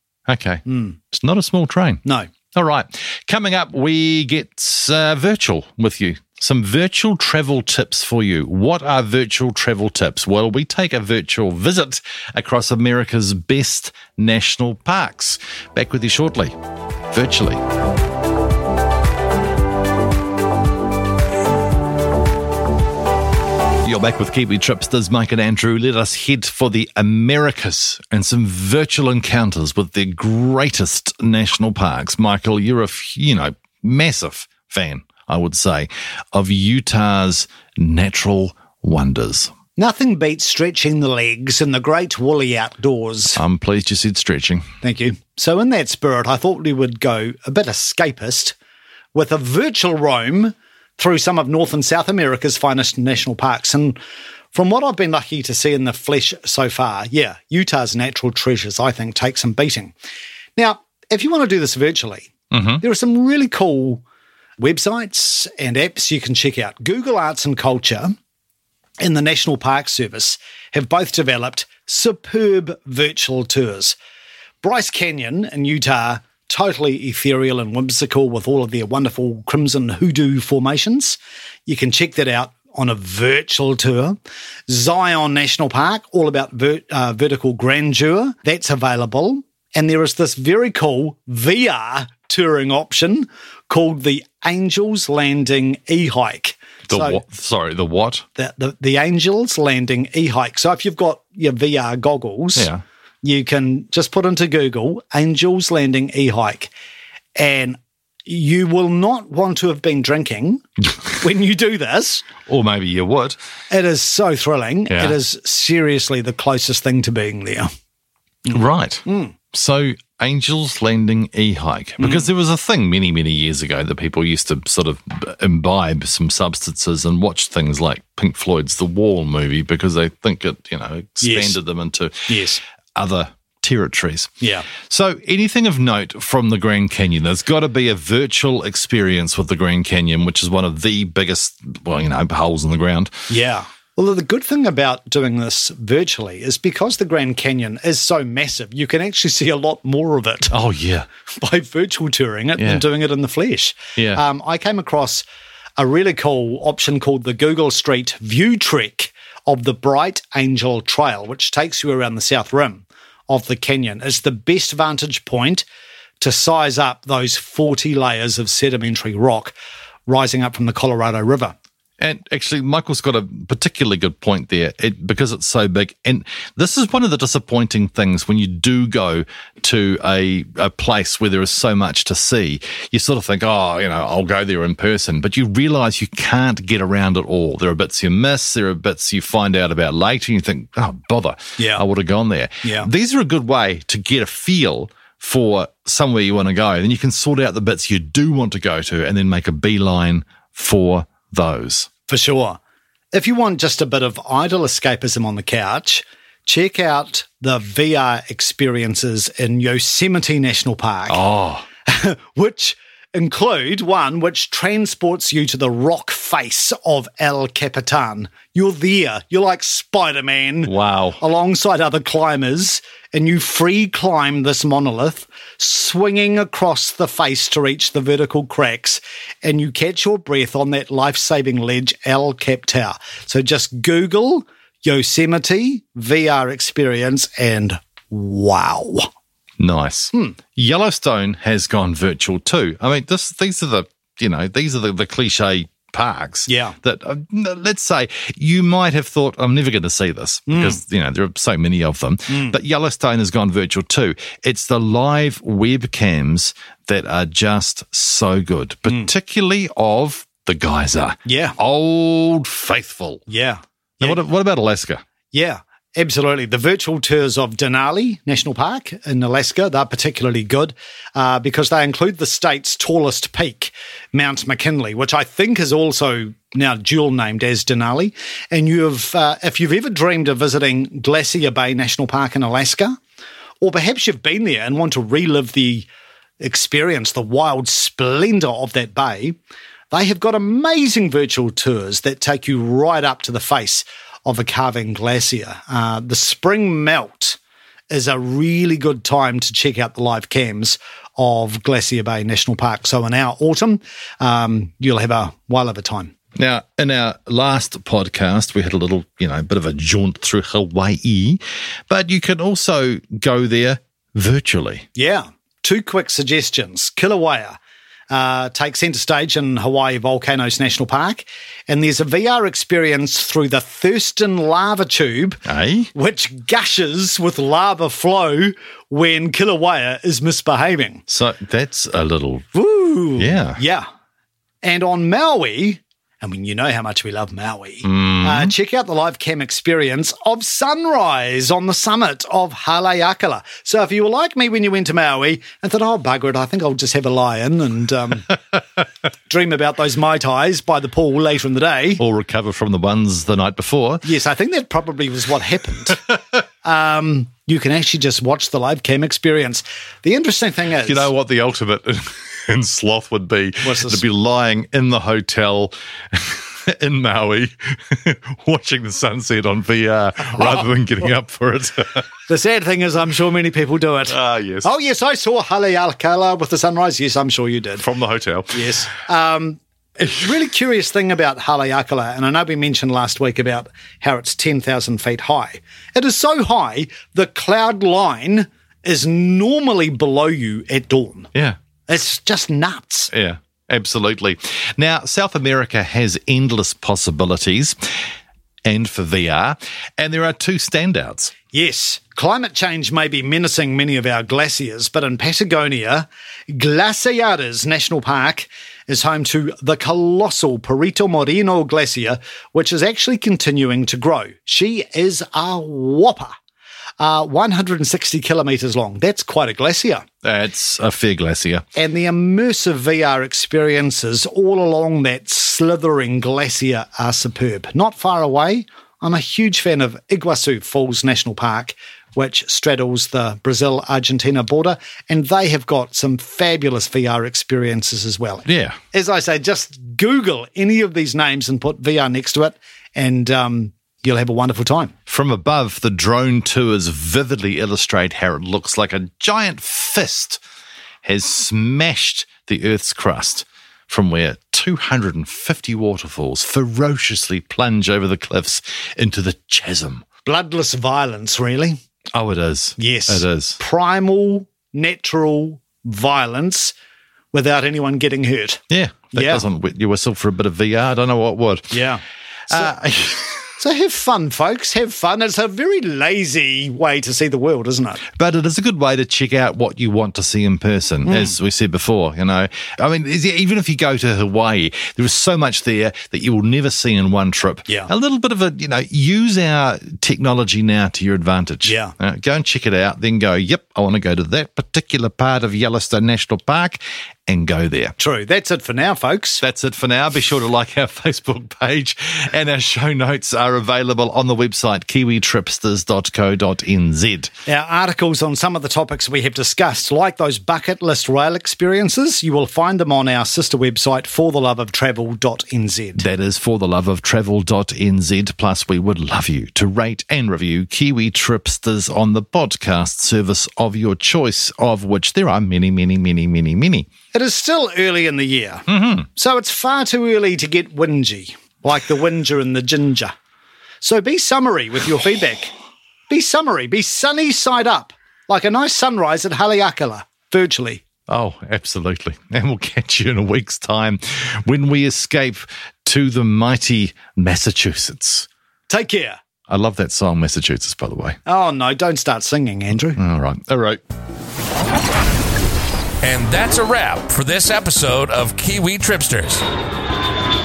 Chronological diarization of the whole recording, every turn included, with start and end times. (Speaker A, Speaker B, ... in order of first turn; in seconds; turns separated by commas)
Speaker A: 0.3-2.0, Speaker B: 0.7-0.9, Speaker A: 2.5-16.6, Speaker A: 17.1-17.6, Speaker A: 23.8-39.5, Speaker B: 39.8-43.4, Speaker A: 43.4-44.7, Speaker B: 44.8-48.5, Speaker B: 49.1-54.0, Speaker B: 54.5-59.9, Speaker B: 60.5-64.0, Speaker A: 62.5-62.8, Speaker B: 64.6-68.2, Speaker B: 69.0-74.0, Speaker B: 74.6-84.2, Speaker B: 84.7-97.2, Speaker A: 96.9-98.2, Speaker B: 98.3-102.7, Speaker A: 102.5-102.8, Speaker B: 103.2-106.7, Speaker B: 107.3-112.2, Speaker A: 112.5-113.4, Speaker B: 113.7-117.7, Speaker A: 114.9-115.2, Speaker B: 118.5-119.3, Speaker A: 118.5-132.3, Speaker B: 122.0-122.2, Speaker B: 131.2-131.5, Speaker B: 132.3-132.6, Speaker A: 132.9-143.3, Speaker B: 134.4-134.7, Speaker B: 143.3-150.5, Speaker A: 150.5-151.1, Speaker B: 151.4-155.2, Speaker A: 152.6-152.8, Speaker A: 154.0-154.2, Speaker B: 155.8-165.6, Speaker B: 166.2-169.5, Speaker B: 170.1-171.5, Speaker A: 172.0-201.9, Speaker B: 202.1-202.6, Speaker B: 203.1-211.2, Speaker A: 211.1-211.7, Speaker B: 211.8-239.1, Speaker A: 220.6-221.2, Speaker A: 239.6-263.2, Speaker B: 246.5-246.8, Speaker B: 250.5-250.8, Speaker B: 252.3-252.5, Speaker B: 261.2-261.6, Speaker B: 263.3-264.2, Speaker A: 264.0-265.0, Speaker B: 265.3-283.0, Speaker B: 283.6-285.9, Speaker B: 286.4-289.4, Speaker B: 289.9-297.4, Speaker B: 297.9-306.1, Speaker A: 306.4-314.9, Speaker B: 314.9-317.6, Speaker B: 318.1-325.4, Speaker A: 325.4-325.9, Speaker B: 325.9-331.0, Speaker A: 331.1-332.5, Speaker B: 332.5-333.9, Speaker A: 333.1-333.6, Speaker B: 334.6-348.4, Speaker A: 337.8-338.5, Speaker B: 349.3-352.0, Speaker A: 352.0-354.0, Speaker B: 354.0-356.0, Speaker B: 356.6-361.1, Speaker A: 360.8-372.1, Speaker B: 363.6-364.0, Speaker B: 372.3-377.8, Speaker A: 374.1-374.7, Speaker A: 377.8-378.6, Speaker B: 378.5-391.3, Speaker B: 391.9-393.1, Speaker A: 393.1-397.8, Speaker A: 398.6-401.3, Speaker B: 401.5-416.3, Speaker B: 417.0-420.0, Speaker A: 420.2-421.6, Speaker B: 421.7-444.9, Speaker A: 438.4-438.8, Speaker A: 445.1-450.4, Speaker A: 451.0-460.0, Speaker B: 460.2-461.8, Speaker A: 462.1-463.6, Speaker B: 462.8-466.7, Speaker B: 467.3-468.6, Speaker A: 468.7-471.8, Speaker B: 469.1-469.4, Speaker B: 471.7-472.0, Speaker A: 472.5-473.5, Speaker B: 473.6-478.0, Speaker A: 478.1-497.9, Speaker B: 481.0-481.3, Speaker B: 491.6-491.9, Speaker B: 498.0-499.4, Speaker A: 499.4-507.3, Speaker B: 507.4-516.0, Speaker A: 516.0-526.9, Speaker B: 527.1-533.1, Speaker A: 528.7-529.1, Speaker B: 533.8-535.5, Speaker B: 536.1-540.8, Speaker A: 541.1-548.3, Speaker B: 548.7-549.2, Speaker A: 549.5-551.2, Speaker B: 551.2-553.0, Speaker A: 553.0-553.8, Speaker C: 556.0-559.4